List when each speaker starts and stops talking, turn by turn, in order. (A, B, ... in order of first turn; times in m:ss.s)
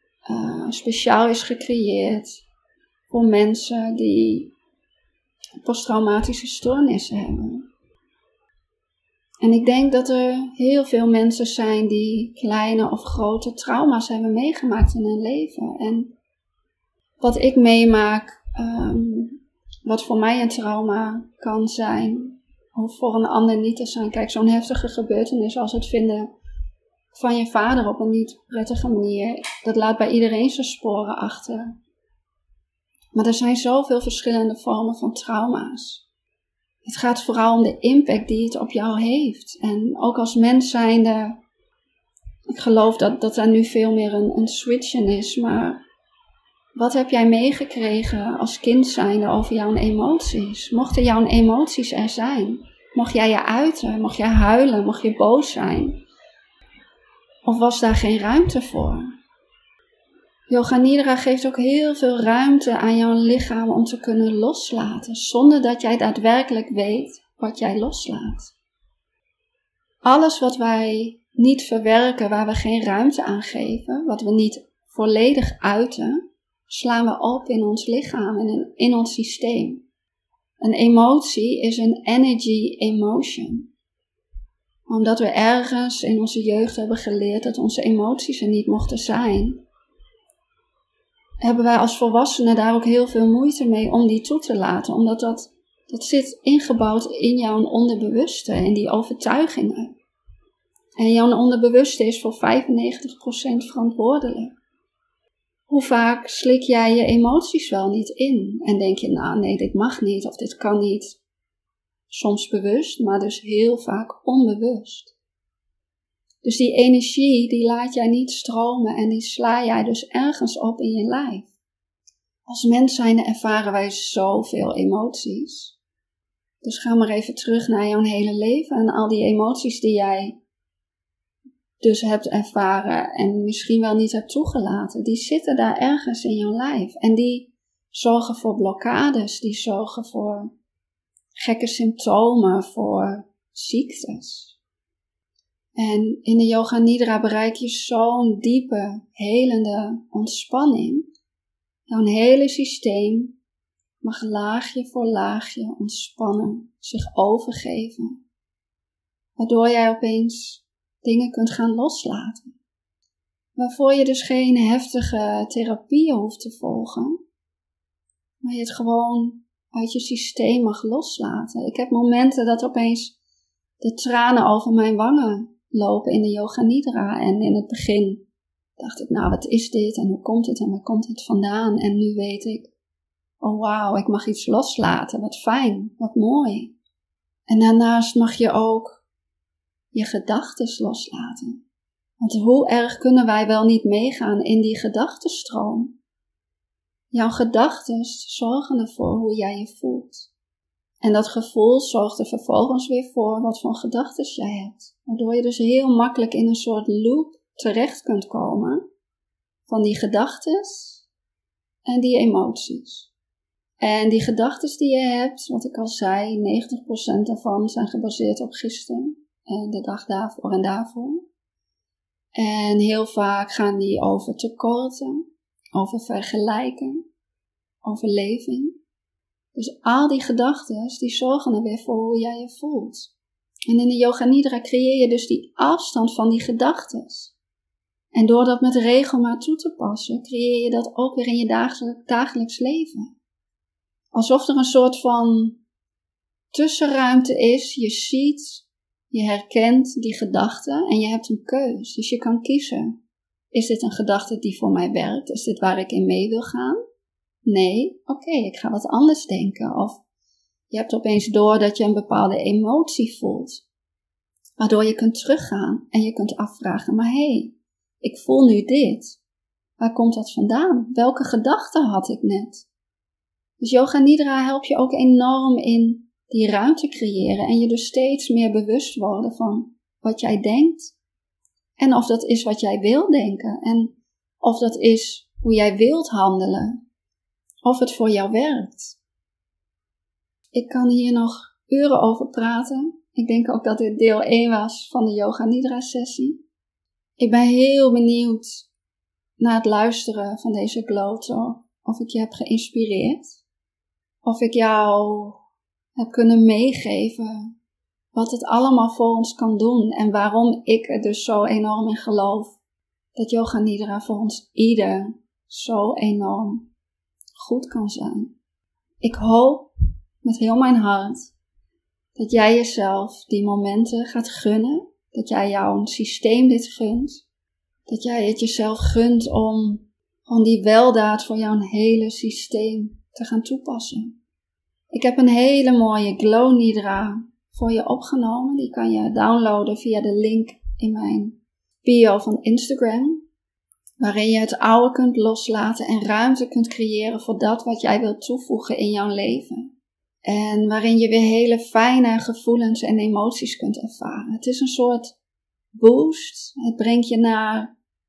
0:00.2-0:02.4 A
0:03.1-0:04.5 A
0:05.6-0:07.6 A
0:09.4-0:16.1 A
0:17.2-0:26.3 A
0:27.1-0:31.8 A
0:33.1-0:36.0 A
0:36.8-0:41.4 A
0:42.5-0:45.8 A
0:46.8-0:56.0 A
0:57.4-0:59.1 A
1:00.5-1:08.5 A
1:10.0-1:19.8 A
1:20.6-1:23.7 A
1:24.9-1:29.6 A
1:31.4-1:39.9 A
1:41.0-1:44.5 A
1:45.7-1:51.2 A
1:52.1-1:55.1 A
1:56.4-2:01.5 A
2:02.5-2:05.8 A
2:06.6-2:10.4 A
2:11.8-2:20.5 A
2:21.4-2:24.6 A
2:25.8-2:31.1 A
2:31.9-2:33.3 A
2:34.0-2:38.2 A
2:39.4-2:42.6 A
2:43.6-2:47.2 A
2:48.4-2:53.1 A
2:53.8-2:58.2 A
2:58.8-3:02.7 A
3:03.4-3:06.7 A
3:07.5-3:09.0 A
3:09.9-3:11.6 A
3:12.2-3:15.9 A
3:17.1-3:20.3 A
3:21.0-3:28.8 A
3:29.7-3:31.0 A
3:31.9-3:33.1 A
3:33.8-3:41.2 A
3:42.4-3:45.2 A
3:45.7-3:47.0 A
3:47.8-3:48.8 A
3:49.5-3:53.1 A
3:53.7-3:57.3 A
3:58.1-4:03.1 A
4:04.1-4:05.6 A
4:06.5-4:12.9 A
4:13.5-4:16.8 A
4:17.4-4:20.0 A
4:20.7-4:23.6 A
4:24.6-4:29.2 A
4:29.8-4:32.6 A
4:33.6-4:40.9 A
4:41.8-4:46.8 A
4:47.6-4:49.0 A
4:50.5-4:56.4 A
4:57.2-4:58.7 A
4:59.4-5:03.4 A
5:04.2-5:05.4 A
5:06.0-5:07.5 A
5:08.1-5:12.6 A
5:13.1-5:16.6 A
5:17.4-5:18.3 A
5:19.0-5:19.7 A
5:20.2-5:21.3 A
5:22.2-5:27.2 A
5:27.9-5:34.1 A
5:34.9-5:43.2 A
5:44.0-5:49.7 A
5:50.2-5:55.2 A
5:55.7-5:57.7 A